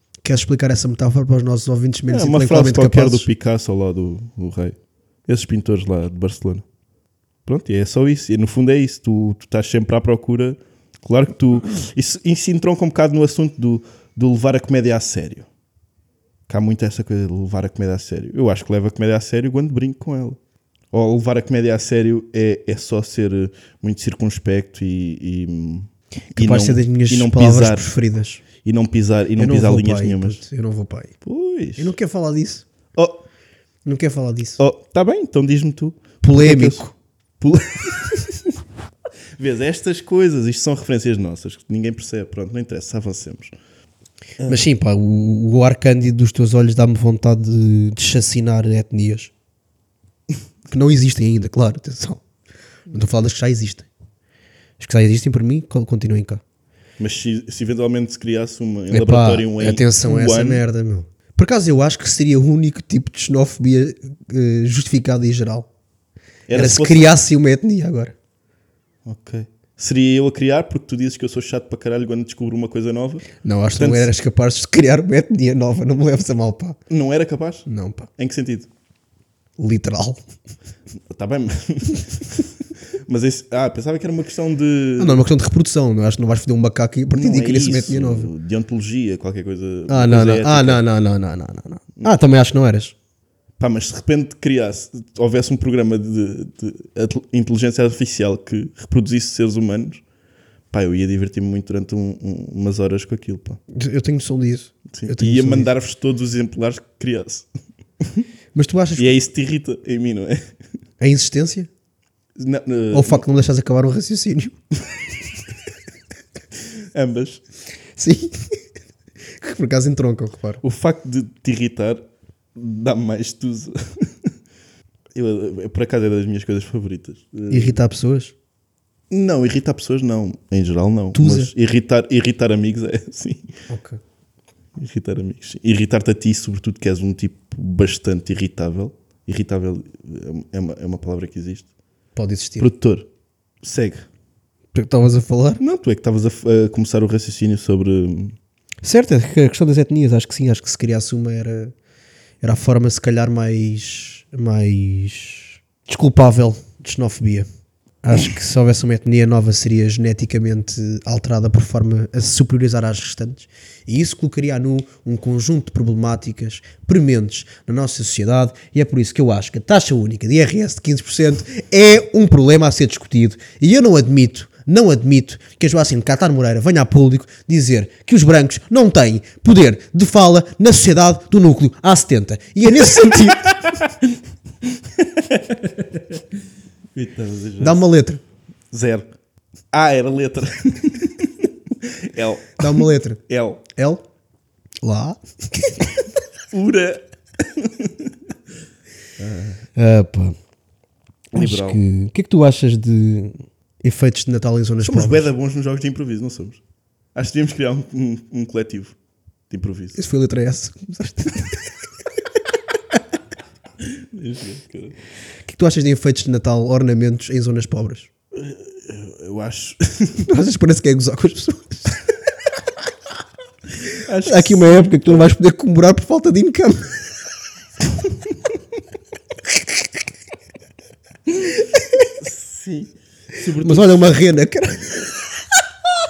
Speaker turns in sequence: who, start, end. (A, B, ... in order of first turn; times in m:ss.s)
0:00.2-0:03.3 A
0:02.1-0:06.6 B
0:07.4-0:15.5 B
0:16.5-0:20.4 B
0:20.9-0:27.9 B
0:26.4-0:28.4 A
0:28.6-0:30.4 B
0:29.4-0:31.1 A
0:31.2-0:31.9 B
0:31.8-0:32.6 A
0:33.0-0:33.2 B
0:33.8-0:34.6 A
0:34.6-0:36.9 B
0:36.2-0:36.9 A
0:37.4-0:38.5 B
0:39.4-0:43.5 B
0:44.5-0:49.3 A
0:50.7-0:52.2 A
0:52.9-0:53.9 A
0:54.8-0:56.4 A
0:57.0-1:00.6 B
0:58.9-1:05.7 A
1:06.5-1:07.2 B
1:06.5-1:08.1 A
1:09.0-1:14.1 B
1:13.4-1:16.8 A
1:16.9-1:17.7 B
1:17.7-1:18.1 A
1:18.2-1:18.7 B
1:19.6-1:20.2 A
1:21.1-1:22.5 B
1:23.1-1:25.2 B
1:25.0-1:28.3 A
1:27.1-1:30.8 B
1:29.9-1:32.9 A
1:33.6-1:40.0 B
1:40.7-1:43.6 B
1:43.7-1:45.7 A
1:44.9-1:47.5 B
1:48.0-1:48.3 B
1:48.5-1:49.2 A
1:49.0-1:50.5 B
1:51.0-1:51.7 A
1:52.4-1:53.3 B
1:52.9-1:54.6 A
1:56.9-1:57.4 B
1:58.0-1:58.6 A
1:59.4-2:00.6 A
2:00.6-2:02.0 B
2:02.6-2:04.3 B
2:05.1-2:07.8 B
2:07.5-2:08.3 A
2:09.1-2:13.5 B
2:11.2-2:11.5 A
2:13.7-2:14.0 A
2:14.8-2:21.7 B
2:22.2-2:22.7 A
2:22.6-2:23.1 B
2:23.6-2:24.1 B
2:24.7-2:25.6 A
2:25.6-2:28.4 B
2:28.8-2:31.7 A
2:32.4-2:37.5 A
2:38.0-3:03.5 A
3:02.8-3:06.2 B
3:06.9-3:07.9 B
3:07.6-3:08.2 A
3:08.7-3:09.1 B
3:09.7-3:13.6 B
3:12.6-3:14.0 A
3:14.8-3:15.8 A
3:16.5-3:18.3 B
3:19.2-3:19.6 B
3:19.8-3:20.4 A
3:21.3-3:21.8 B
3:21.4-3:25.3 A
3:24.8-3:26.6 B
3:27.1-3:29.0 B
3:29.5-3:30.0 B
3:30.0-3:31.7 A
3:33.8-3:35.0 B
3:35.5-3:38.1 A
3:38.3-3:40.3 B
3:40.2-3:41.9 A
3:43.9-3:45.3 B
3:44.2-3:47.1 A
3:52.2-3:54.2 B
3:53.6-3:55.2 A